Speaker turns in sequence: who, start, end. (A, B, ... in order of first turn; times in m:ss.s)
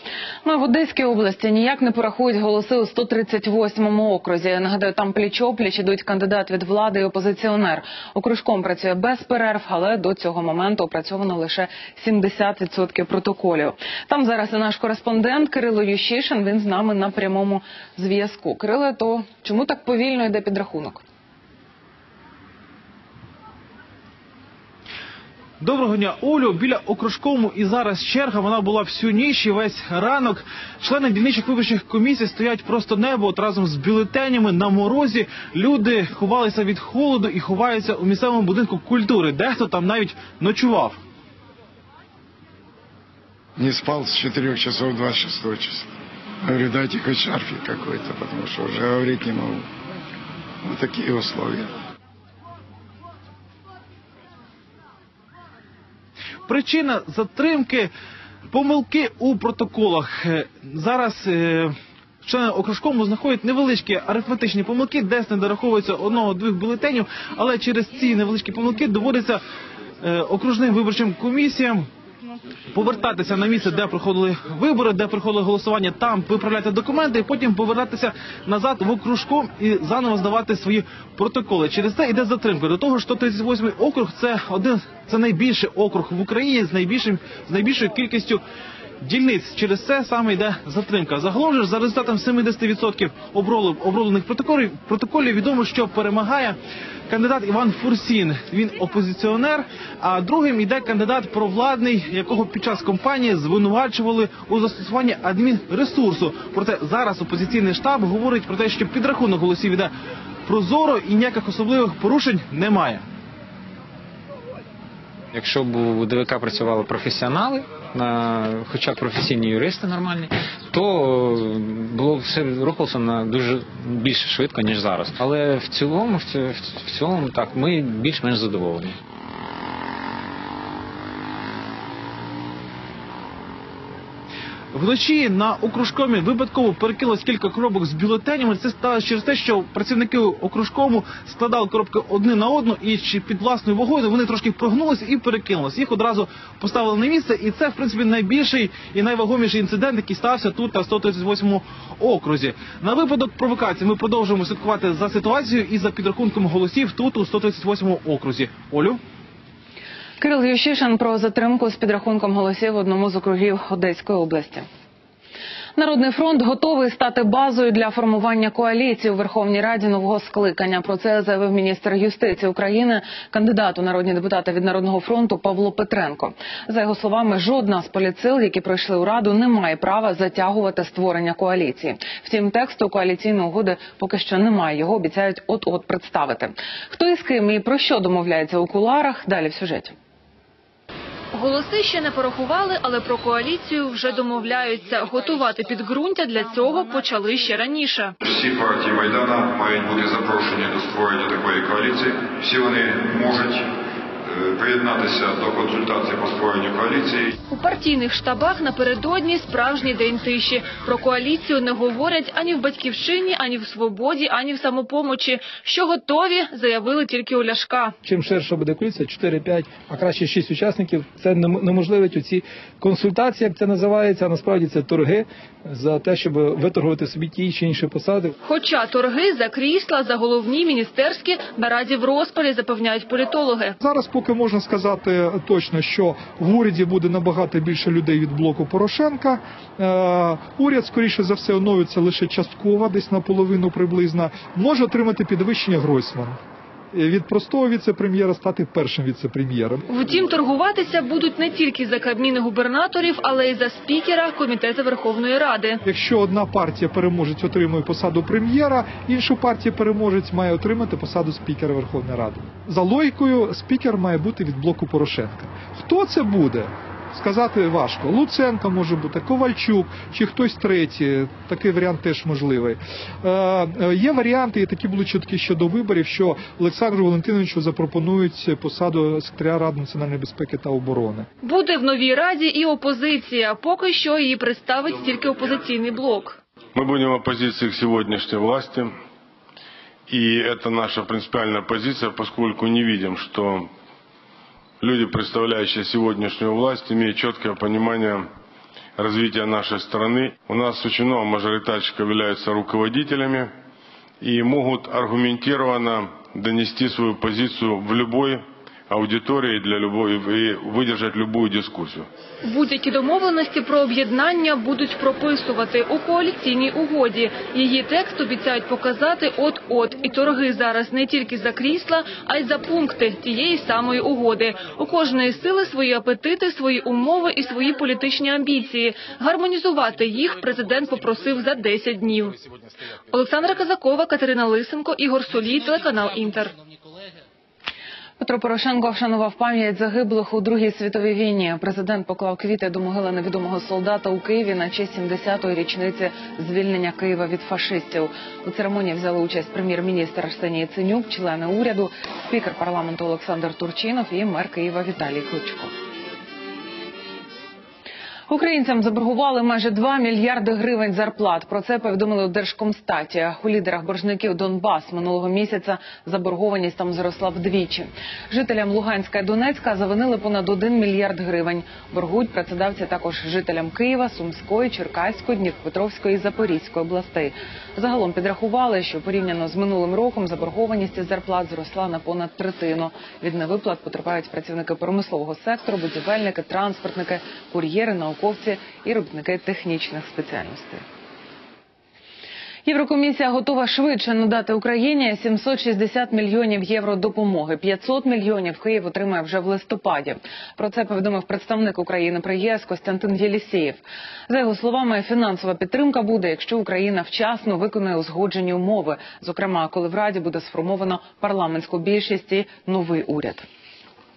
0:00.4-0:21.0 A
0:25.6-0:41.0 B
0:43.6-0:45.8 C
0:48.5-0:49.2 C
0:56.5-0:57.9 B
0:58.5-1:09.4 B
1:10.0-1:11.9 B
1:12.7-1:28.4 B
1:29.0-1:36.6 B
1:37.1-1:49.9 B
1:50.5-1:53.0 B
1:55.3-2:09.0 D
2:14.7-2:39.0 B
2:40.2-2:44.7 A
2:45.8-3:10.0 A
3:11.3-3:18.2 E
3:18.2-3:23.6 F
3:24.3-3:27.3 F
3:27.5-3:38.0 E
3:38.1-3:48.3 G
3:48.4-3:53.8 E
3:53.8-4:06.4 H
4:06.9-4:09.8 H
4:09.9-4:15.8 E
4:15.8-4:41.3 H
4:41.4-4:46.4 E
4:46.8-4:48.9 I
4:50.1-4:53.7 I
4:54.8-4:58.3 I
4:59.0-5:03.5 I
5:04.2-5:12.1 I
5:12.4-5:32.4 E
5:33.1-5:36.6 E
5:38.2-5:55.7 A
5:58.3-6:30.8 A
6:32.6-6:53.4 A